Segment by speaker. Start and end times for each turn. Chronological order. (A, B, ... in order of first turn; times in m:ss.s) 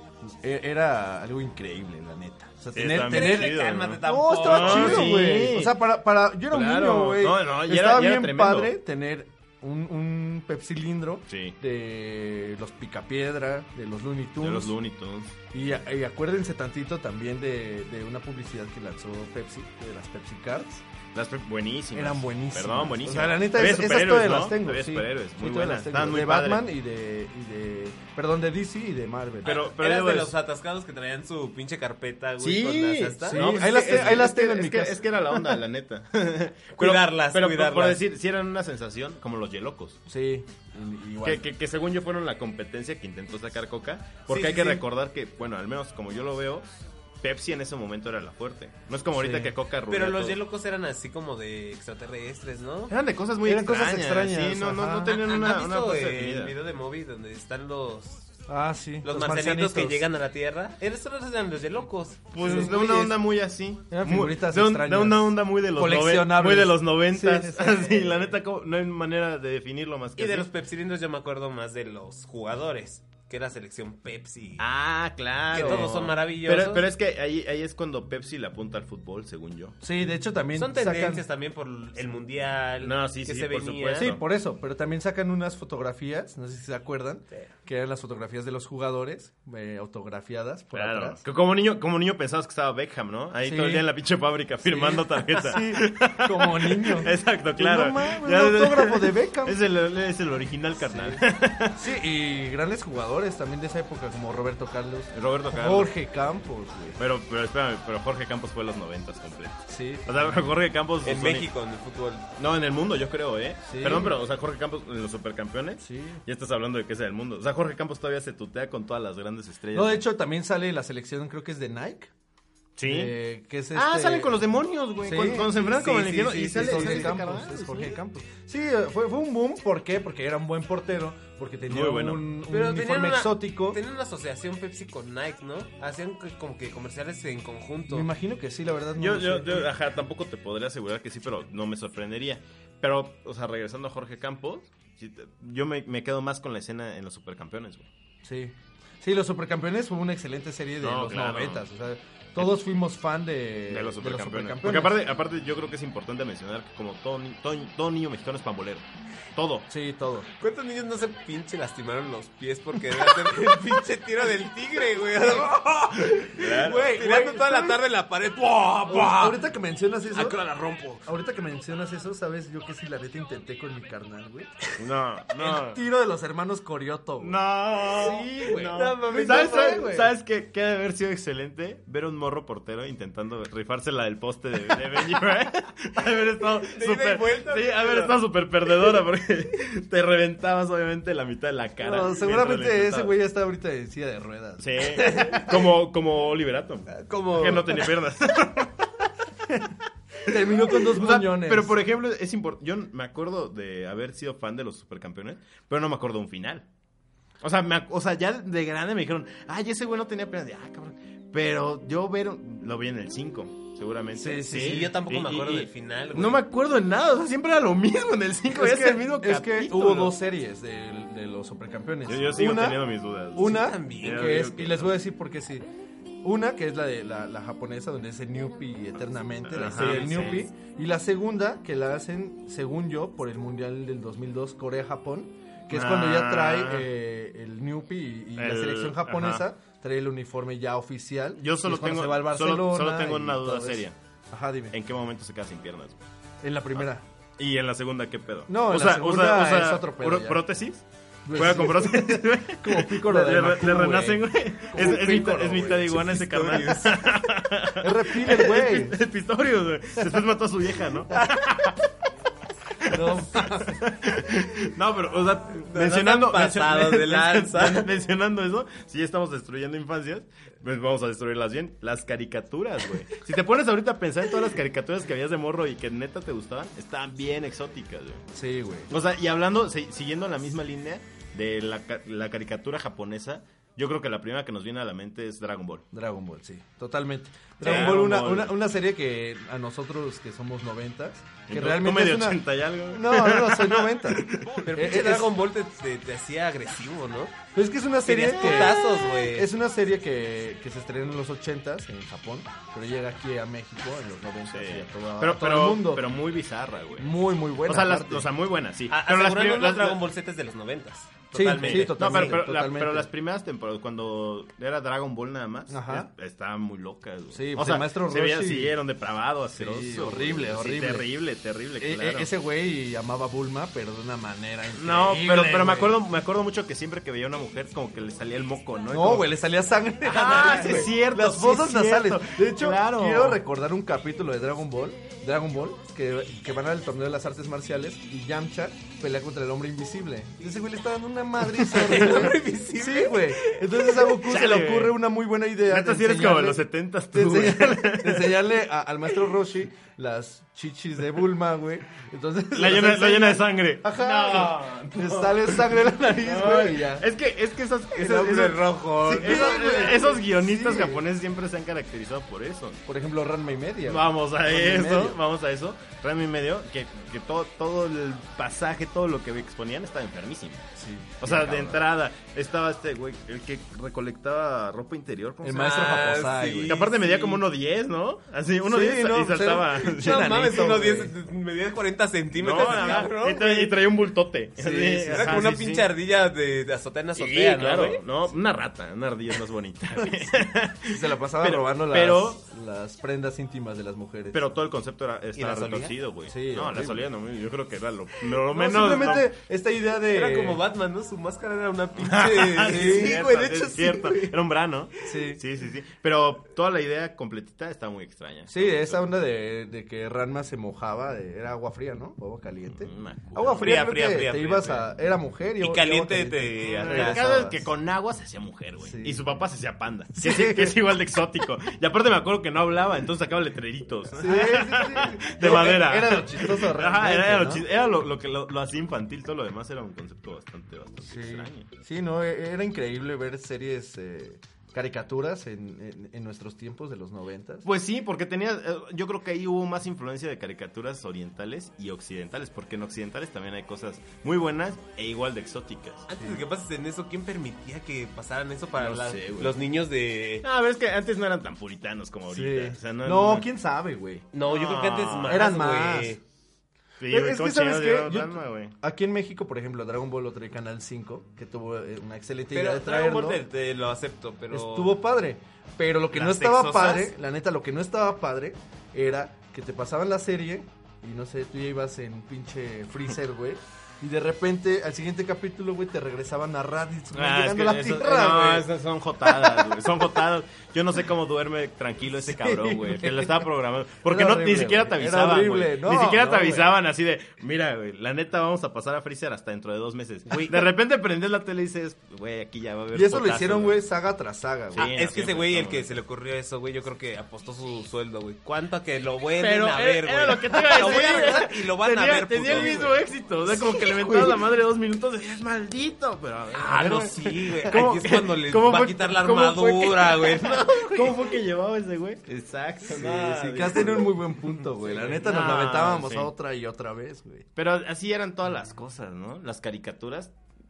0:00.2-0:14.7 A
0:02.7-0:05.8 B
0:03.0-0:05.1 C
0:06.5-0:08.8 B
0:11.3-0:11.6 B
0:14.4-0:15.4 B
0:15.5-0:20.8 A
0:21.1-0:26.6 B
0:21.9-0:29.6 A
0:29.4-0:30.3 B
0:29.4-0:33.5 C
0:32.4-0:40.0 B
0:33.2-0:35.6 A
0:36.8-0:38.0 C
0:40.1-0:41.4 A
0:41.2-0:50.4 B
0:44.3-0:44.8 C
0:49.1-0:49.5 A
0:49.9-0:52.9 C
0:52.9-0:56.5 B
0:53.4-0:55.1 A
0:55.1-0:58.3 C
0:58.5-1:00.0 A
0:59.0-1:03.2 C
1:02.3-1:10.5 B
1:02.4-1:02.7 A
1:03.9-1:08.2 A
1:10.2-1:14.6 C
1:14.6-1:19.8 B
1:15.5-1:16.9 C
1:19.8-1:21.2 A
1:20.6-1:24.1 C
1:22.8-1:24.2 B
1:24.0-1:31.2 A
1:30.7-1:41.9 B
1:33.4-1:33.9 A
1:34.6-1:39.6 A
1:41.7-1:47.0 A
1:45.1-1:45.9 B
1:47.0-1:51.5 B
1:49.7-1:50.4 A
1:51.0-1:52.3 C
1:52.4-2:00.0 B
1:53.6-1:54.2 A
1:55.8-1:56.2 A
1:59.7-2:02.1 A
2:02.8-2:03.2 B
2:02.8-2:04.5 A
2:03.7-2:08.0 B
2:05.0-2:13.8 A
2:06.5-2:07.1 C
2:11.7-2:12.3 B
2:12.5-2:18.1 C
2:17.9-2:19.7 A
2:19.0-2:27.9 B
2:28.2-2:35.0 A
2:30.8-2:31.6 B
2:33.7-2:39.7 B
2:39.7-2:40.3 A
2:40.4-2:49.4 C
2:45.3-2:47.8 A
2:46.3-2:46.9 B
2:48.9-2:50.4 A
2:50.1-2:51.0 C
2:51.0-2:54.6 A
2:54.8-2:55.8 B
2:55.4-3:00.0 A
2:57.2-3:13.1 B
2:58.4-3:00.1 C
3:06.6-3:08.2 C
3:11.8-3:15.4 A
3:14.6-3:18.9 B
3:14.9-3:15.5 C
3:16.9-3:17.9 C
3:20.2-3:21.8 A
3:20.2-3:26.6 B
3:27.4-3:40.1 B
3:34.2-3:34.9 A
3:34.5-3:36.4 C
3:38.5-3:45.6 A
3:42.0-3:44.9 B
3:43.4-3:44.4 C
3:46.2-4:04.7 A
3:49.4-3:50.4 B
3:49.6-3:50.4 C
3:55.7-3:56.9 B
3:58.4-3:59.4 B
4:01.4-4:04.0 B
4:04.7-4:06.0 B
4:06.4-4:07.0 A
4:07.4-4:21.8 B
4:08.5-4:10.4 A
4:11.2-4:16.0 A
4:15.9-4:17.1 C
4:17.8-4:19.0 A
4:22.8-4:38.2 B
4:22.8-4:23.9 A
4:25.6-4:27.9 C
4:38.3-4:38.9 A
4:38.9-4:45.8 B
4:45.9-4:55.3 A
4:47.6-4:48.6 B
4:47.6-4:47.9 C
4:51.5-4:54.7 B
4:54.6-4:57.4 C
4:57.5-5:06.1 A
4:58.0-4:59.5 C
5:04.5-5:07.1 B
5:07.0-5:08.3 A
5:07.6-5:10.0 B
5:08.9-5:12.4 C
5:11.3-5:13.1 A
5:11.5-5:22.3 B
5:15.7-5:16.1 A
5:17.3-5:18.8 A
5:19.5-5:21.1 A
5:21.8-5:26.0 A
5:24.7-5:29.3 B
5:28.9-5:57.1 A
5:30.0-5:33.4 B
5:30.3-5:30.9 C
5:41.6-5:44.2 C
5:44.2-5:45.0 B
5:45.7-5:48.4 B
5:52.5-6:02.8 B
5:58.0-5:59.9 C
5:58.0-6:01.0 A
6:02.8-6:05.2 A
6:03.8-6:10.7 B
6:10.8-6:11.8 A
6:11.2-6:16.1 B
6:15.4-6:16.8 A
6:15.5-6:17.4 C
6:16.6-6:20.7 B
6:18.6-6:21.1 A
6:19.9-6:23.8 C
6:22.3-6:25.9 B
6:24.6-6:25.5 A
6:25.0-6:28.0 C
6:27.2-6:32.4 B
6:30.9-6:34.4 A
6:34.3-6:39.3 B
6:35.4-6:35.9 C
6:36.3-6:37.0 A
6:38.3-6:40.6 A
6:40.0-6:44.2 C
6:42.0-6:49.0 B
6:42.6-6:44.0 A
6:45.0-6:45.4 A
6:48.5-6:57.6 A
6:52.8-6:53.8 B
6:53.6-6:54.9 C
6:55.6-6:57.4 C
6:56.6-7:11.7 B
6:58.8-6:59.2 A
7:00.1-7:00.8 A
7:04.1-7:07.6 A
7:11.0-7:17.6 A
7:17.6-7:26.1 B
7:26.1-7:30.4 C
7:26.2-7:26.4 A
7:28.8-7:29.6 B
7:30.4-7:33.5 B
7:32.3-7:34.2 A
7:34.3-7:36.2 C
7:34.4-7:35.5 B
7:35.3-7:36.2 A
7:37.0-7:38.8 B
7:37.1-7:43.4 A
7:42.5-7:45.0 C
7:44.5-7:58.7 A
7:46.1-7:47.1 C
7:57.1-8:13.8 B
7:59.2-7:59.8 A
8:02.2-8:03.4 A
8:04.0-8:06.7 A
8:10.3-8:10.6 C
8:12.9-8:14.9 A
8:14.7-8:15.9 B
8:14.8-8:24.3 C
8:19.4-8:34.2 B
8:22.5-8:22.8 A
8:26.5-8:31.4 C
8:32.9-8:37.4 A
8:34.9-8:35.8 C
8:35.0-8:36.3 B
8:37.6-8:40.3 B